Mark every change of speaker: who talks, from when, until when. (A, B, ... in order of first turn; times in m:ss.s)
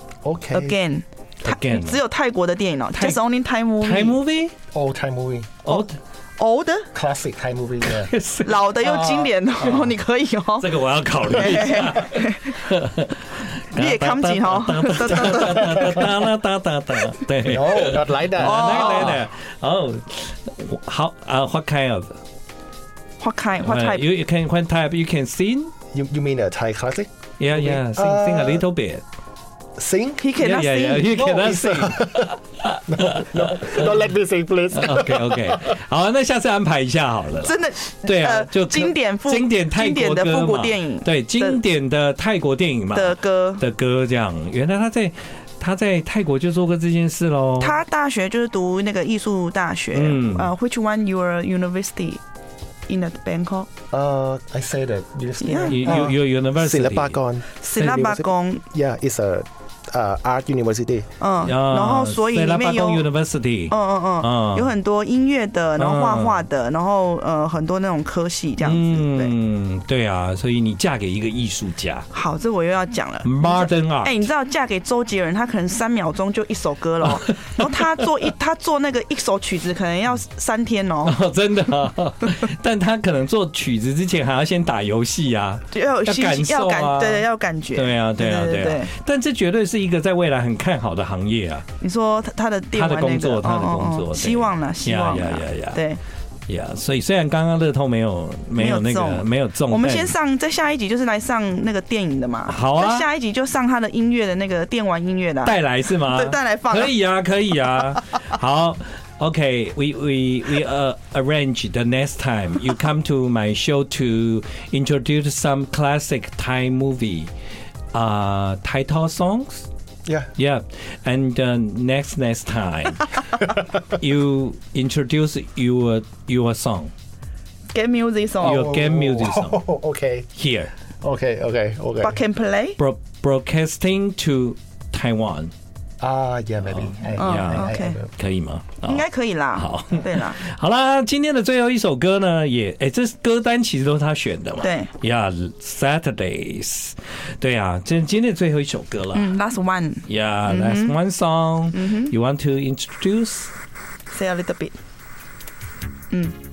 0:00.2-0:00.8 A
0:00.5-0:04.2 B
0:01.4-0:02.0 C
0:03.0-0:03.2 C
0:03.8-0:04.6 C
0:04.7-0:05.7 A
0:05.6-0:06.0 C
0:06.4-0:06.9 B
0:06.9-0:08.1 A
0:07.9-0:08.7 C
0:08.4-0:12.7 B
0:08.8-0:09.9 A
0:10.6-0:22.2 C
0:13.8-0:16.1 B
0:17.4-0:19.2 A
0:18.4-0:19.2 B
0:23.2-0:24.1 B
0:23.6-0:25.7 C
0:25.9-0:28.6 A
0:27.4-0:29.0 C
0:29.8-0:30.3 A
0:30.2-0:31.4 B
0:30.4-0:34.0 C
0:31.1-0:32.3 A
0:32.9-0:35.7 A
0:34.7-0:47.8 C
0:37.4-0:41.6 B
0:42.9-0:43.6 B
0:47.6-0:52.2 B
0:49.9-0:50.5 C
0:52.9-0:53.7 B
0:53.9-1:01.1 A
0:55.4-0:56.1 B
0:55.7-0:57.2 C
0:57.6-0:58.6 B
1:01.2-1:03.1 B
1:01.4-1:04.7 C
1:03.7-1:09.3 B
1:05.8-1:06.4 C
1:08.6-1:12.1 C
1:12.1-1:21.2 B
1:13.2-1:14.2 C
1:17.2-1:17.8 C
1:21.0-1:31.6 C
1:25.7-1:28.9 B
1:31.8-1:36.0 B
1:32.7-1:35.8 C
1:36.5-1:40.1 C
1:38.6-1:47.0 B
1:42.5-1:43.1 C
1:45.4-1:57.3 C
1:57.9-1:59.7 C
2:00.4-2:06.9 C
2:07.7-2:08.7 B
2:08.4-2:10.3 A
2:08.4-2:09.6 C
2:10.3-2:10.7 C
2:11.0-2:12.2 A
2:12.0-2:12.8 B
2:12.8-2:15.5 C
2:16.0-2:18.1 A
2:17.2-2:18.0 B
2:17.2-2:29.3 C
2:18.8-2:20.4 B
2:24.6-2:24.9 B
2:29.1-2:31.0 B
2:30.1-2:33.5 C
2:31.7-2:32.1 B
2:34.1-2:34.8 B